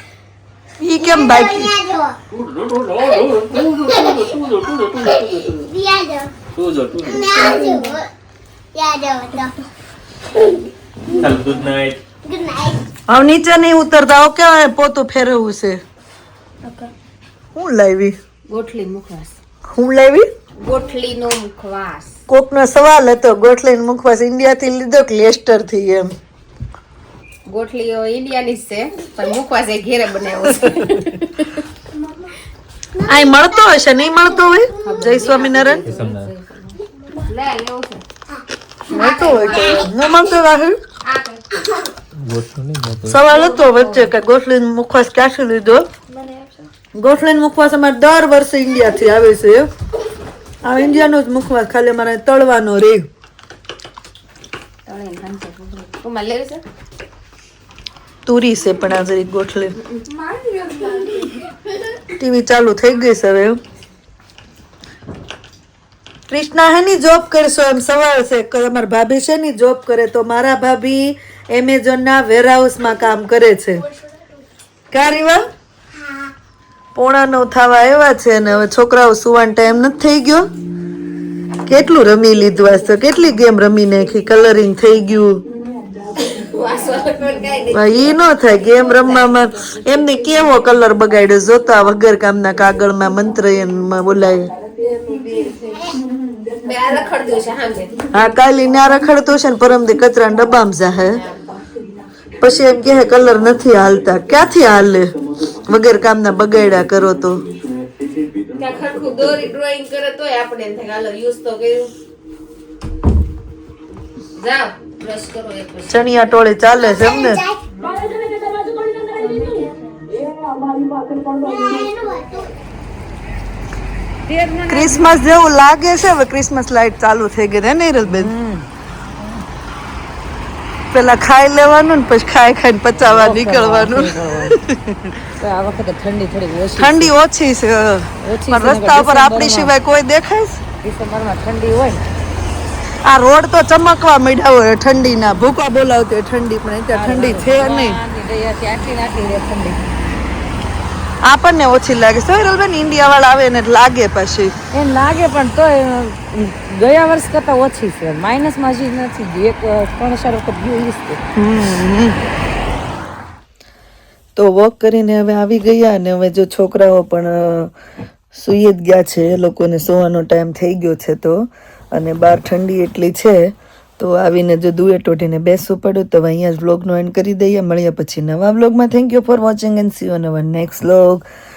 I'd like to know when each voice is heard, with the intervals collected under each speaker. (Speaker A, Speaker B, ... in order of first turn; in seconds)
Speaker A: 0.8-1.8, 13.1-15.8, 17.6-18.2, 19.7-20.3, 22.3-26.1, 33.1-35.9, 38.9-40.8, 43.1-45.9, 47.0-49.7, 50.6-53.1, 58.3-59.7, 62.1-63.6, 66.3-73.9, 74.9-75.4, 77.0-80.5, 81.7-85.4, 87.7-94.5, 95.0-95.6, 98.1-101.2, 102.4-105.1, 105.7-107.5, 115.9-117.4, 120.8-121.2, 124.7-128.3, 130.9-135.2, 136.8-140.6, 143.1-148.0, 151.3-154.5, 161.4-162.2, 164.4-167.7, 168.3-181.3
Speaker B: 1.0-2.2, 5.7-6.3, 7.0-8.1, 8.7-9.7, 12.2-12.9, 33.0-34.9, 39.5-39.9, 75.9-76.3, 116.8-117.7, 121.4-122.5
Speaker C: 2.3-5.7, 6.5-7.7, 11.1-12.0, 35.8-36.3, 42.1-43.2
Speaker D: 18.5-19.4, 20.6-22.1, 27.5-31.6, 34.8-38.0, 38.9-39.9, 41.0-41.6, 43.3-44.1, 54.9-56.6, 86.2-89.8, 96.6-98.0, 101.0-101.5, 108.5-111.9, 114.3-116.4
Speaker E: 117.9-120.1, 124.3-125.2, 128.1-128.7, 132.9-134.6, 135.4-137.1, 138.2-139.7, 140.8-142.0, 146.9-149.8, 154.7-161.2